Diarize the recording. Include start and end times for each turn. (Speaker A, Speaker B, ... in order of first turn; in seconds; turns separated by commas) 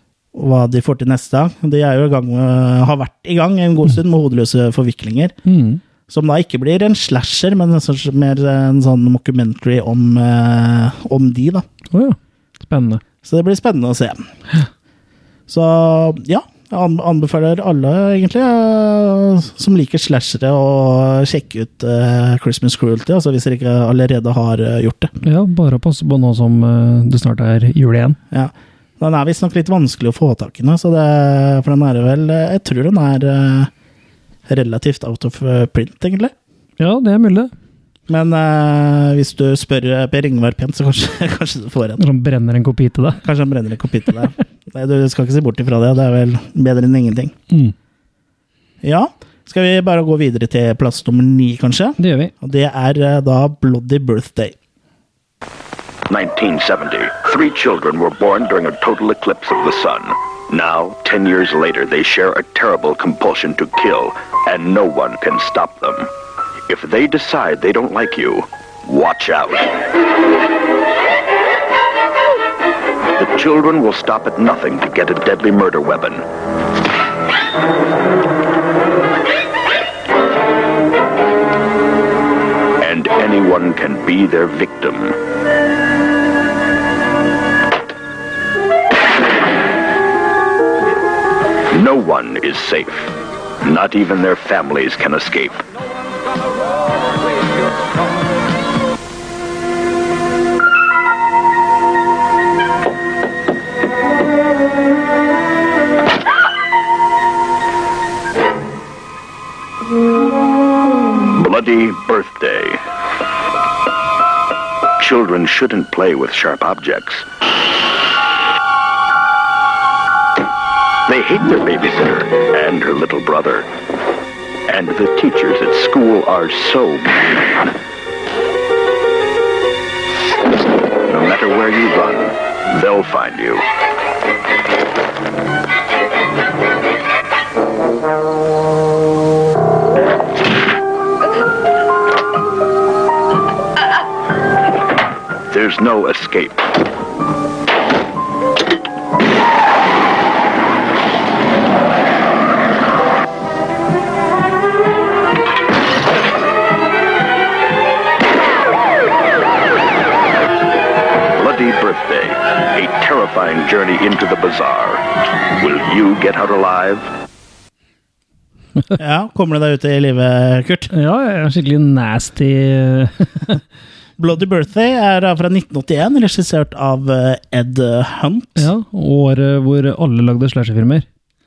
Speaker A: 0.3-5.4, Speaker B: 5.5-5.8, Speaker A: 6.1-11.7, Speaker B: 11.9-13.0, Speaker A: 13.2-14.3, Speaker A: 15.5-25.1, Speaker B: 25.2-28.2, Speaker A: 28.3-33.7, Speaker A: 34.5-36.3, Speaker B: 36.8-37.5, Speaker A: 38.1-42.0, Speaker B: 42.0-43.2, Speaker A: 43.2-47.4, Speaker A: 48.8-54.6, Speaker B: 52.0-52.3, Speaker C: 56.1-66.1, Speaker C: 66.7-69.8, Speaker C: 73.2-76.2, Speaker C: 82.8-85.2, Speaker C: 91.7-95.6, Speaker C: 111.3-112.8, Speaker C: 115.0-117.2, Speaker C: 121.1-123.7, Speaker C: 124.7-127.4, Speaker C: 131.1-133.6, Speaker C: 145.5-146.7, Speaker C: 161.3-167.1, Speaker A: 169.0-170.9, Speaker B: 170.9-173.6, Speaker A: 174.2-178.7, Speaker B: 178.6-181.1